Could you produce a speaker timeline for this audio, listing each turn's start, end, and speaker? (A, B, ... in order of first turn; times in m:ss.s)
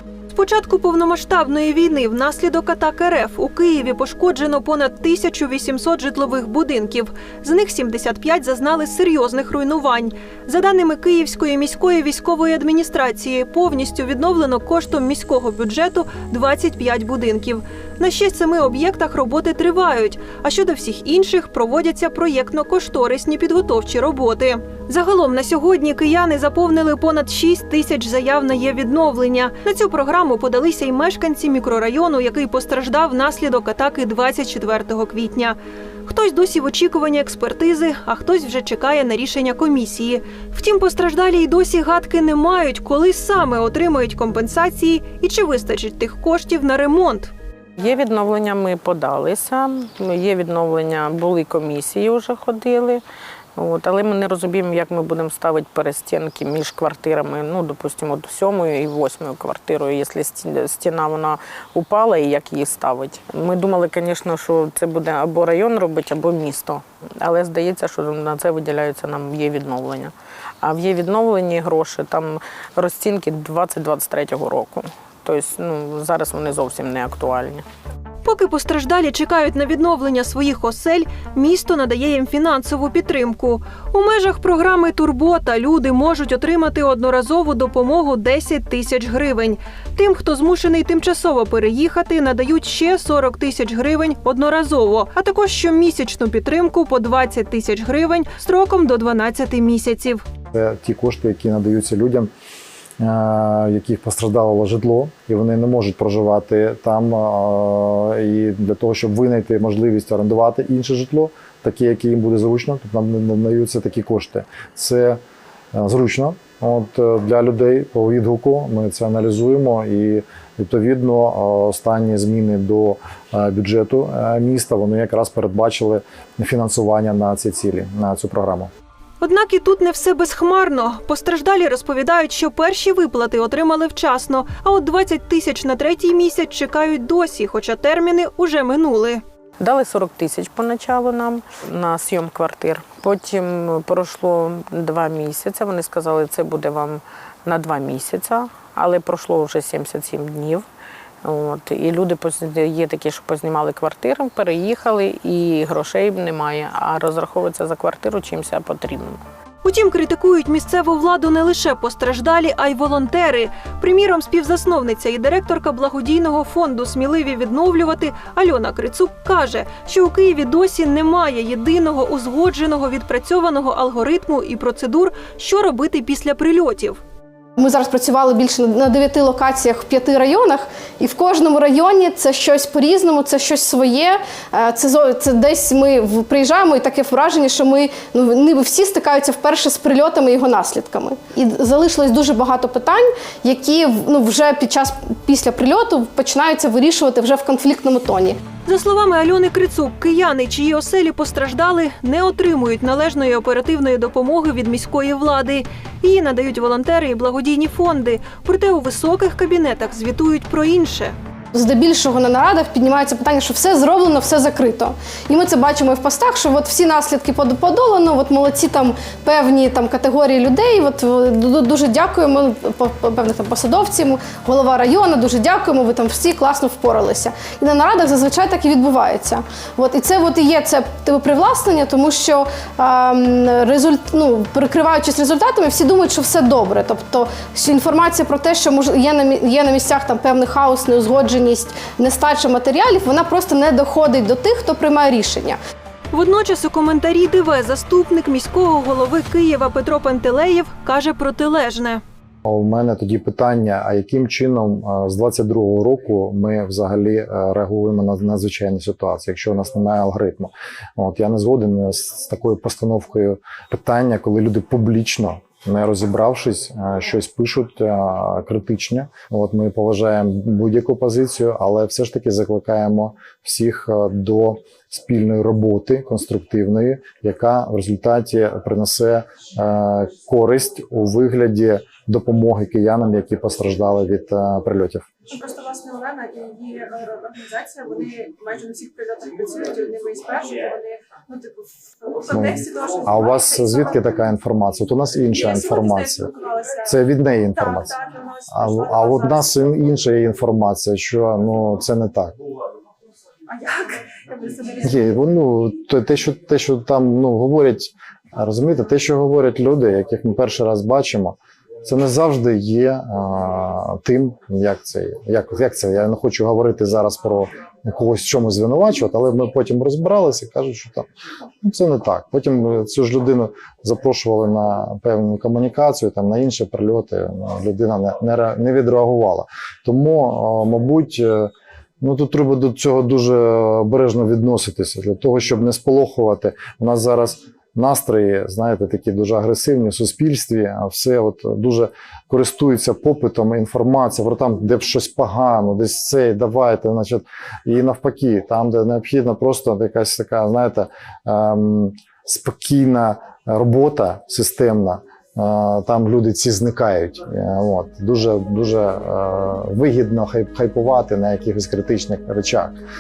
0:00.3-0:47.3 A
0:47.8-0:53.0 B
0:53.6-1:17.6 B
1:18.2-1:40.2 A
1:40.5-1:42.3 C
1:43.0-1:55.2 C
1:55.7-2:08.7 C
2:09.2-2:19.2 A
2:19.6-2:30.7 B
2:31.2-2:39.2 B
2:39.6-2:57.0 A
2:57.6-3:18.4 D
3:18.7-3:31.2 A
3:31.5-4:05.6 D
4:06.1-4:12.0 A
4:12.4-4:45.1 C
4:45.4-4:51.5 E
4:52.1-4:53.8 E
4:52.3-4:58.0 C
4:55.4-4:56.8 E
4:57.6-4:59.5 E
4:58.5-5:02.4 C
5:03.5-5:04.8 E
5:04.8-5:21.1 C
5:21.6-6:02.8 C